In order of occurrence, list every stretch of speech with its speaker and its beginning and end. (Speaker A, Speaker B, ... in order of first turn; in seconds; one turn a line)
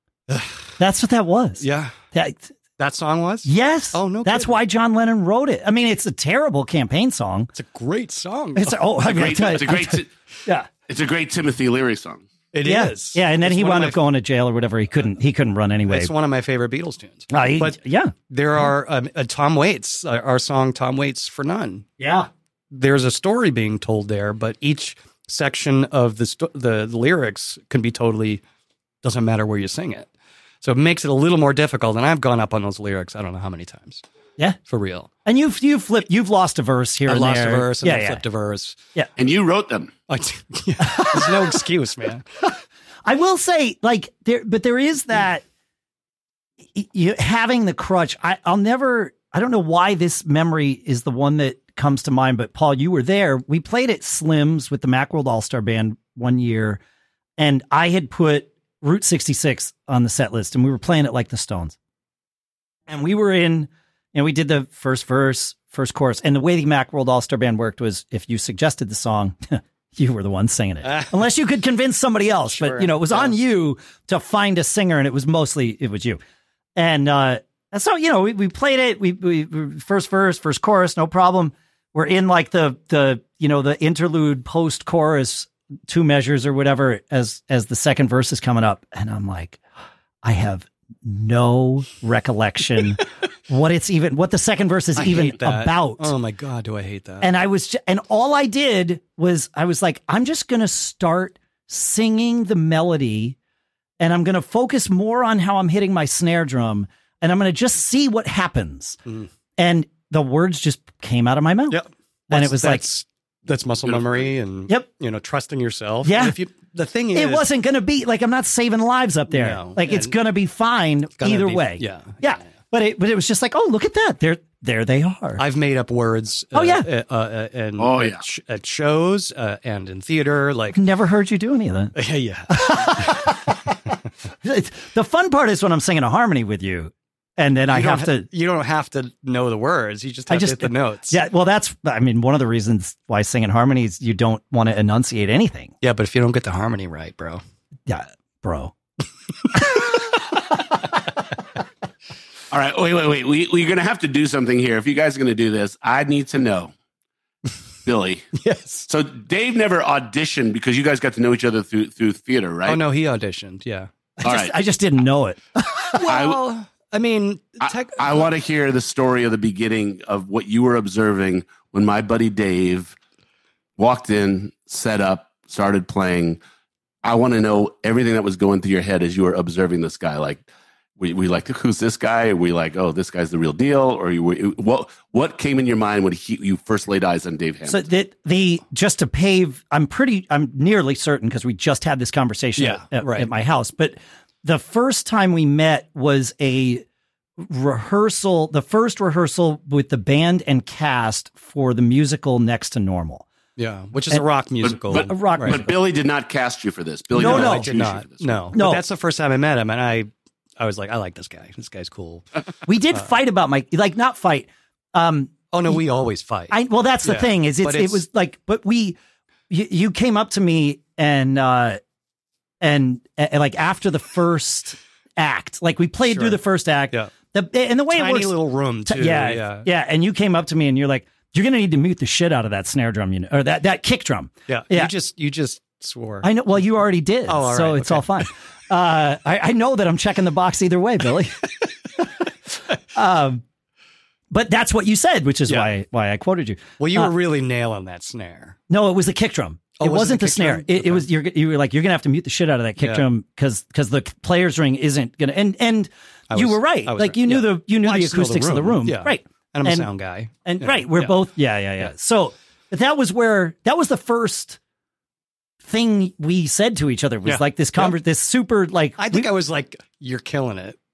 Speaker A: 0.3-0.7
Speaker B: 0.8-2.5
Speaker A: 1.6-1.9
Speaker A: 2.8-4.6
Speaker B: 3.4-7.5
Speaker A: 7.5-8.8
Speaker B: 8.6-10.7
Speaker C: 9.0-10.1
Speaker C: 10.9-12.2
Speaker A: 12.5-14.0
Speaker B: 12.6-16.1
Speaker A: 15.9-17.8
Speaker B: 17.3-18.1
Speaker A: 18.3-21.9
Speaker B: 22.0-22.3
Speaker A: 22.7-28.4
Speaker A: 29.0-30.1
Speaker A: 30.6-34.0
Speaker A: 34.7-35.1
Speaker B: 35.2-38.2
Speaker A: 37.1-38.8
Speaker C: 39.2-39.9
Speaker A: 40.1-42.2
Speaker B: 40.8-41.6
Speaker B: 43.0-45.4
Speaker B: 46.7-56.8
Speaker B: 57.4-61.8
Speaker B: 62.9-76.2
Speaker A: 70.8-71.1
Speaker A: 72.5-73.3
Speaker B: 76.8-89.6
Speaker B: 90.2-96.1
Speaker A: 95.0-97.3
Speaker B: 97.2-103.3
Speaker B: 104.0-109.0
Speaker B: 109.6-112.9
Speaker A: 111.7-117.5
Speaker B: 116.0-116.4
Speaker B: 117.1-125.4
Speaker A: 119.3-120.1
Speaker A: 121.2-122.2
Speaker A: 125.4-130.8
Speaker B: 126.5-126.9
Speaker C: 127.8-128.2
Speaker B: 130.7-131.9
Speaker A: 131.9-133.3
Speaker B: 132.5-133.7
Speaker B: 134.4-138.3
Speaker A: 137.7-141.2
Speaker B: 140.3-145.7
Speaker A: 145.8-147.4
Speaker B: 147.9-148.7
Speaker B: 149.5-149.9
Speaker C: 152.5-156.7
Speaker C: 157.8-158.3
Speaker A: 158.3-158.9
Speaker C: 158.9-162.8
Speaker A: 162.7-163.9
Speaker B: 164.2-166.0
Speaker C: 164.2-164.5
Speaker A: 165.9-168.3
Speaker C: 166.1-166.4
Speaker C: 167.6-172.9
Speaker C: 173.8-176.4
Speaker C: 177.0-180.4
Speaker C: 181.0-187.8
Speaker B: 187.7-196.8
Speaker A: 192.6-193.3
Speaker B: 197.4-203.2
Speaker A: 203.6-205.6
Speaker C: 204.6-208.4
Speaker B: 204.9-205.7
Speaker A: 207.1-212.3
Speaker B: 207.2-207.7
Speaker B: 208.5-208.8
Speaker B: 212.7-215.8
Speaker A: 215.5-218.0
Speaker B: 216.5-219.0
Speaker B: 219.5-221.8
Speaker B: 222.6-228.3
Speaker A: 226.1-226.4
Speaker A: 227.9-229.7
Speaker B: 228.8-234.9
Speaker A: 234.5-236.3
Speaker B: 236.2-242.1
Speaker A: 237.3-238.2
Speaker B: 242.9-243.4
Speaker B: 244.3-247.1
Speaker A: 246.8-248.6
Speaker B: 248.7-259.9
Speaker A: 249.8-251.0
Speaker A: 252.8-253.0
Speaker A: 256.3-261.1
Speaker B: 260.4-264.6
Speaker B: 265.6-269.3
Speaker A: 267.2-267.9
Speaker A: 269.0-270.8